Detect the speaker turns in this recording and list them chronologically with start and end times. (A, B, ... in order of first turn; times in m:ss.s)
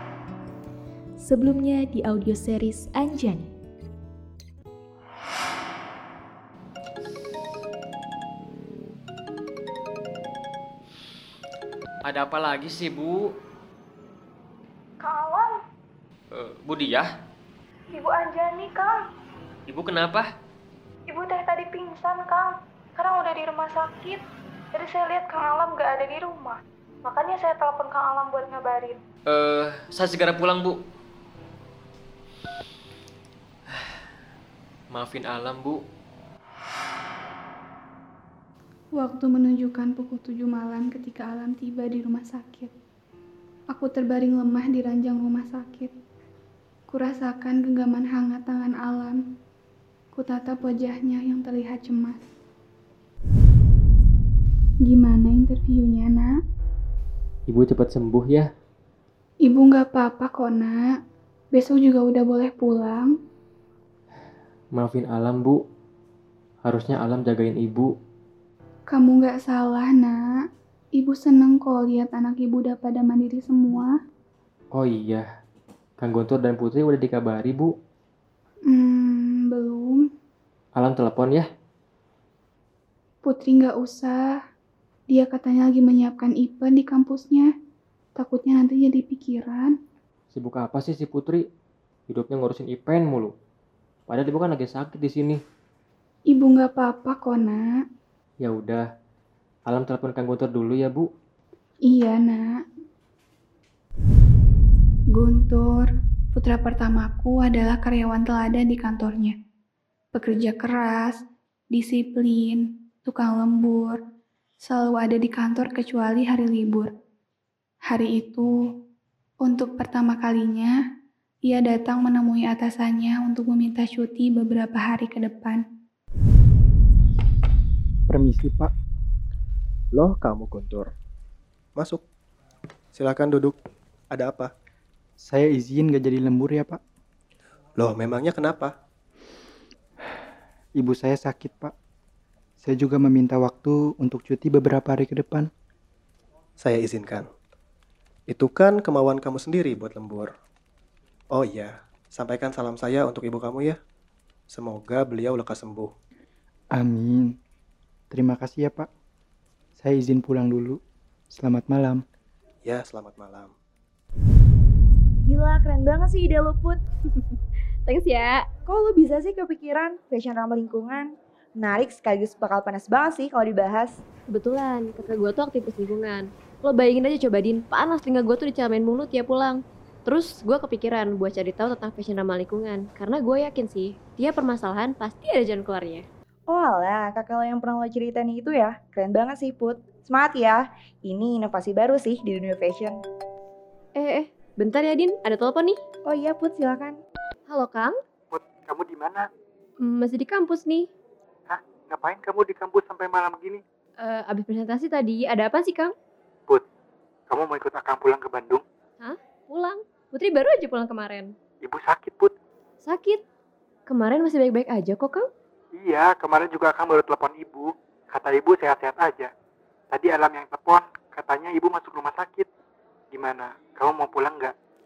0:01.2-0:03.5 A
0:12.0-0:13.3 B
0:15.0-0:15.6 C
0:16.3-0:17.1 B
0:17.9-0:19.0 C
0:19.7-0:20.3 B
0:21.1-0:29.0 C
0:29.3-0:30.8 B
0:34.9-0:35.8 B
0:38.9-0:42.7 D
0:43.7-0:45.9 D
0:46.9-0:49.2 D
0:50.1-0:52.2 D
0:54.8-0:56.4 D
0:57.5-0:58.5 B
0:59.4-1:01.0 D
1:01.5-1:03.1 D
1:04.7-1:05.6 B
1:06.6-1:07.9 B
1:08.9-1:14.0 D
1:14.7-1:15.2 B
1:16.0-1:17.7 B
1:18.6-1:20.0 D
1:20.8-1:21.5 B
1:23.2-1:24.4 D
1:25.1-1:27.5 D
1:28.2-1:29.7 D
1:30.3-1:31.4 B
1:32.1-1:33.3 B
1:34.1-1:35.4 B
1:36.3-1:37.8 D
1:38.4-1:38.8 B
1:39.7-1:41.1 B
1:41.8-1:42.6 D
1:45.1-1:49.3 D
1:50.1-1:54.0 D
1:54.6-1:56.9 D
1:57.8-1:58.6 D
1:59.4-2:00.8 D
2:01.4-2:05.6 D
2:08.1-2:08.7 E
2:09.9-2:10.9 F
2:11.8-2:12.0 F
2:12.9-2:13.6 F
2:14.1-2:14.5 F
2:15.2-2:16.8 E
2:17.8-2:18.7 F
2:20.8-2:21.7 E
2:22.6-2:25.5 E
2:26.6-2:27.3 F
2:28.3-2:30.3 F
2:31.3-2:33.8 F
2:34.5-2:35.9 F
2:36.7-2:37.4 E
2:38.1-2:38.9 E
2:39.8-2:40.8 E
2:41.3-2:42.0 E
2:42.6-2:43.5 F
2:45.2-2:46.8 G
2:47.8-2:48.4 H
2:48.7-2:54.0 G
2:54.3-3:06.0 H
3:06.5-3:13.0 G
3:13.9-3:15.8 H
3:16.0-3:17.0 G
3:17.5-3:18.0 H
3:18.3-3:19.3 I
3:19.8-3:20.9 H
3:21.5-3:23.6 I
3:24.0-3:25.9 H
3:27.3-3:28.6 I
3:29.0-3:31.3 H
3:31.6-3:32.3 I
3:32.8-3:33.2 H
3:33.9-3:35.3 H
3:35.8-3:39.3 I
3:39.9-3:42.5 I
3:43.1-3:44.5 I